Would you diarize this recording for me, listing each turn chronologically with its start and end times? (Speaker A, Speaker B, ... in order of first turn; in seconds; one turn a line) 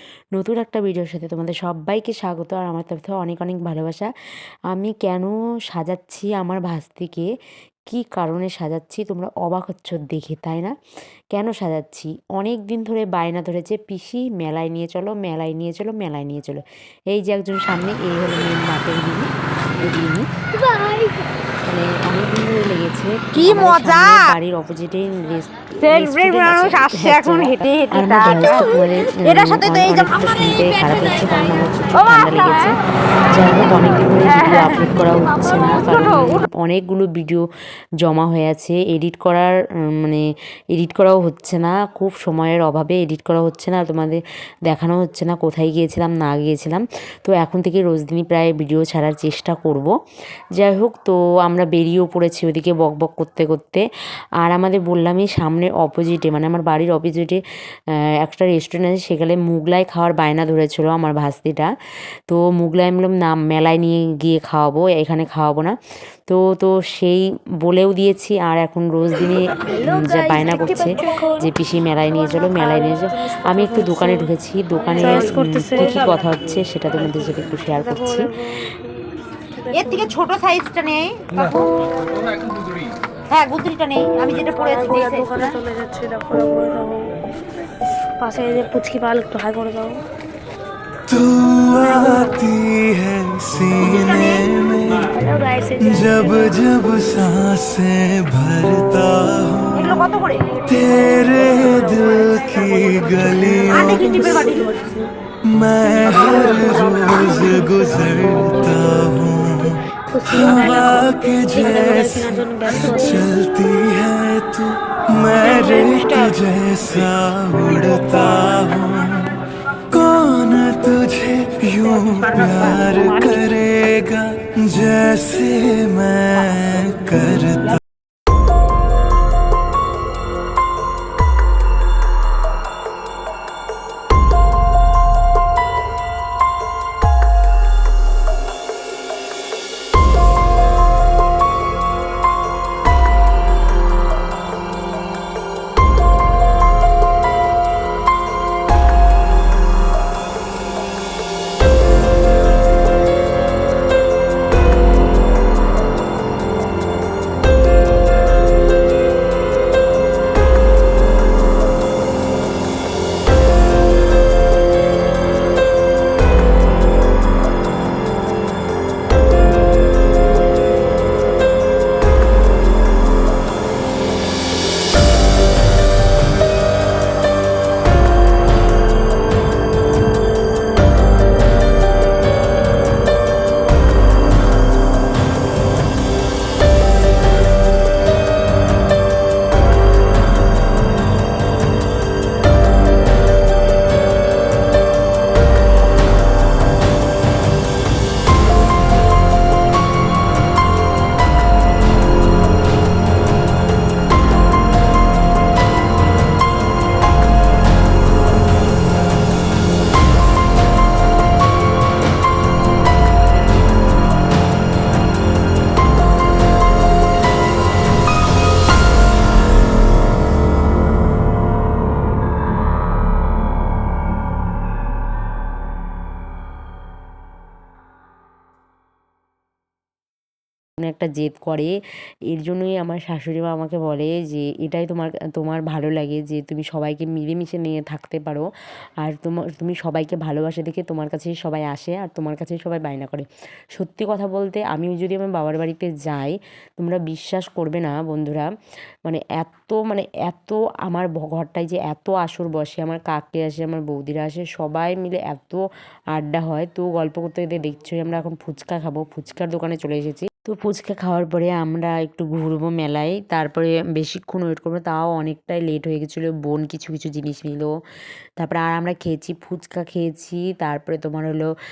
Speaker A: 0.3-4.1
Speaker A: 4.7-7.3
Speaker A: 7.9-10.8
Speaker A: 11.3-20.3
Speaker A: 21.6-37.5
Speaker B: 23.4-24.3
Speaker B: 25.9-30.4
Speaker A: 38.0-49.9
Speaker A: 50.5-53.8
Speaker A: 54.4-61.7
Speaker A: 62.2-78.6
Speaker B: 79.7-81.7
Speaker B: 83.3-85.6
Speaker C: 84.7-87.2
Speaker C: 88.2-90.0
Speaker D: 91.1-95.1
Speaker B: 93.9-94.5
Speaker C: 95.1-96.5
Speaker D: 95.9-99.9
Speaker B: 99.7-100.6
Speaker D: 100.6-103.8
Speaker C: 101.6-105.1
Speaker B: 103.7-104.8
Speaker D: 105.5-119.3
Speaker B: 106.3-107.1
Speaker C: 110.1-113.2
Speaker D: 119.9-127.8
Speaker B: 122.1-122.5
Speaker A: 230.8-248.5
Speaker A: 249.0-267.8
Speaker A: 268.4-271.5